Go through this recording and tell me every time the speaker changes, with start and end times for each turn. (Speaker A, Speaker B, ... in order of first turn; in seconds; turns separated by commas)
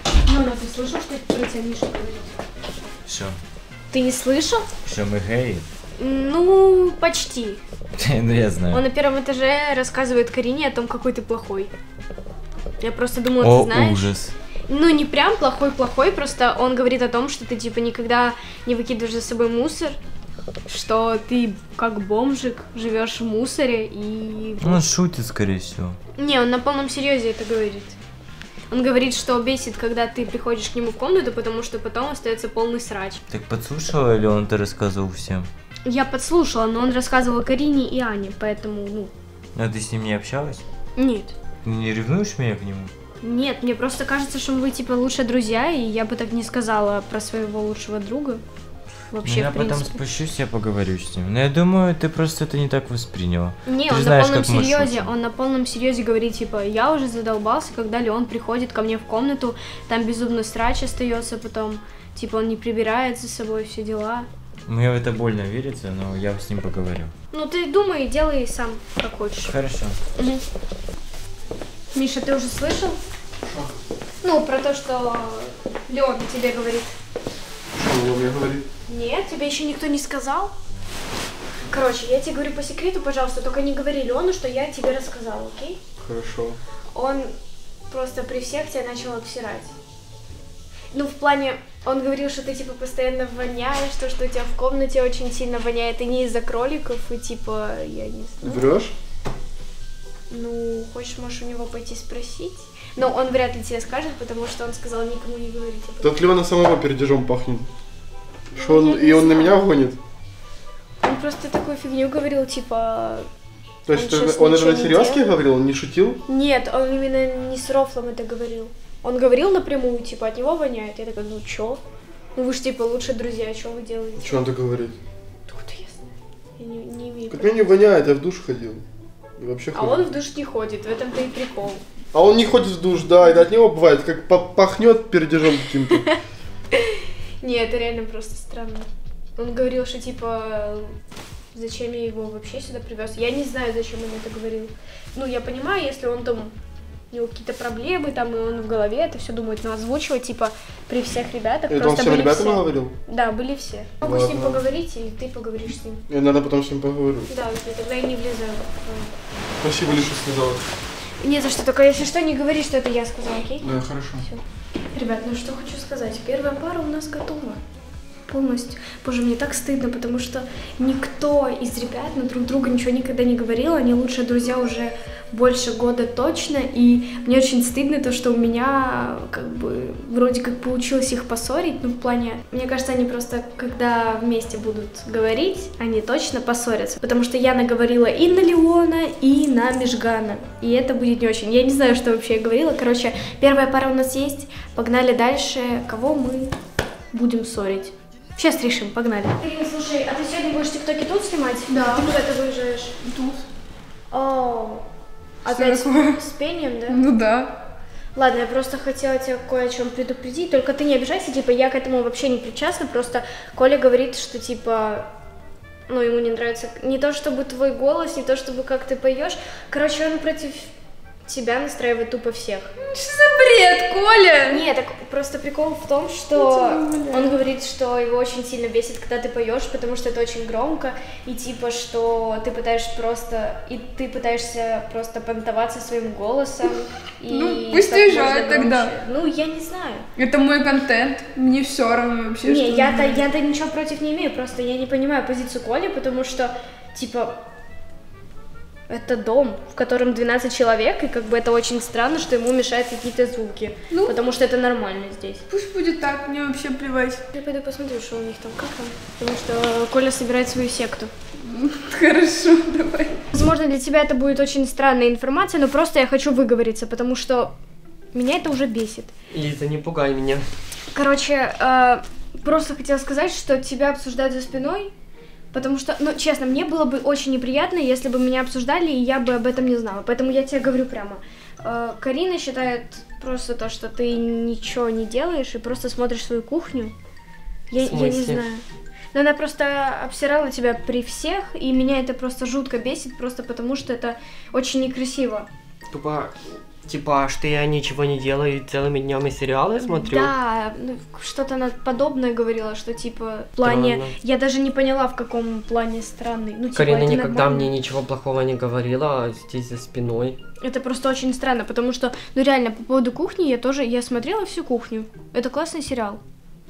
Speaker A: 0.3-2.4, Speaker B: 3.0-3.4, Speaker A: 3.9-4.7, Speaker B: 4.8-5.7, Speaker A: 6.0-7.6, Speaker B: 8.0-8.8, Speaker A: 8.7-11.7, Speaker A: 12.8-14.1, Speaker B: 13.4-14.3, Speaker A: 14.7-20.0, Speaker A: 20.7-24.9, Speaker B: 24.6-26.0, Speaker A: 26.2-28.0, Speaker A: 28.7-33.2, Speaker B: 33.3-35.5, Speaker A: 35.9-39.1, Speaker B: 39.5-40.6, Speaker A: 41.0-41.3, Speaker B: 41.6-42.9, Speaker A: 43.2-48.4, Speaker A: 49.1-50.0, Speaker B: 49.2-55.1, Speaker A: 53.6-64.3, Speaker B: 64.7-67.1, Speaker A: 67.3-69.5, Speaker B: 69.5-70.0, Speaker A: 70.2-70.4, Speaker A: 71.9-73.0, Speaker C: 73.4-73.7, Speaker A: 74.2-76.9, Speaker C: 77.8-78.7, Speaker A: 78.9-80.5, Speaker A: 81.7-85.8, Speaker C: 86.0-86.6, Speaker A: 86.9-87.3, Speaker A: 87.9-89.7, Speaker A: 90.9-98.6, Speaker C: 98.4-98.9, Speaker A: 100.3-106.1, Speaker C: 106.0-107.7, Speaker A: 108.5-109.6, Speaker C: 108.6-110.0, Speaker A: 111.0-113.3, Speaker C: 113.8-116.2, Speaker A: 113.9-115.2, Speaker A: 116.3-121.8, Speaker A: 122.3-124.4, Speaker C: 124.2-125.0, Speaker A: 125.5-126.0, Speaker A: 126.6-127.5, Speaker C: 127.3-128.8, Speaker C: 129.4-130.0, Speaker A: 129.8-131.8, Speaker C: 132.1-136.0, Speaker A: 135.9-136.2, Speaker A: 136.8-140.9, Speaker A: 141.5-146.5, Speaker A: 147.1-156.0, Speaker C: 151.7-152.9, Speaker C: 154.0-154.6, Speaker C: 156.1-157.3, Speaker A: 157.3-159.1, Speaker C: 159.6-160.6, Speaker A: 161.2-163.7, Speaker C: 163.6-164.2, Speaker A: 164.9-167.6, Speaker A: 168.3-196.5, Speaker A: 197.1-202.9, Speaker D: 201.7-202.1, Speaker D: 203.0-203.4, Speaker A: 204.1-204.8, Speaker A: 205.4-207.0, Speaker D: 205.4-206.2, Speaker D: 206.9-207.6, Speaker A: 208.1-215.1, Speaker A: 215.9-220.7, Speaker A: 221.2-222.7, Speaker D: 222.8-224.6, Speaker A: 224.5-240.1, Speaker D: 226.3-227.3, Speaker D: 237.3-238.9, Speaker D: 240.2-243.2, Speaker A: 242.4-247.4, Speaker A: 248.9-255.4, Speaker D: 253.9-254.1, Speaker D: 255.5-257.2, Speaker A: 257.3-261.1, Speaker D: 261.4-263.2, Speaker A: 263.3-267.5, Speaker A: 268.1-269.1, Speaker E: 269.3-270.4, Speaker A: 270.9-274.9, Speaker A: 275.5-286.9, Speaker A: 287.7-295.5, Speaker E: 287.8-288.4, Speaker E: 295.9-300.3, Speaker A: 299.8-307.7, Speaker E: 303.6-304.1, Speaker E: 306.7-310.4, Speaker A: 310.6-316.2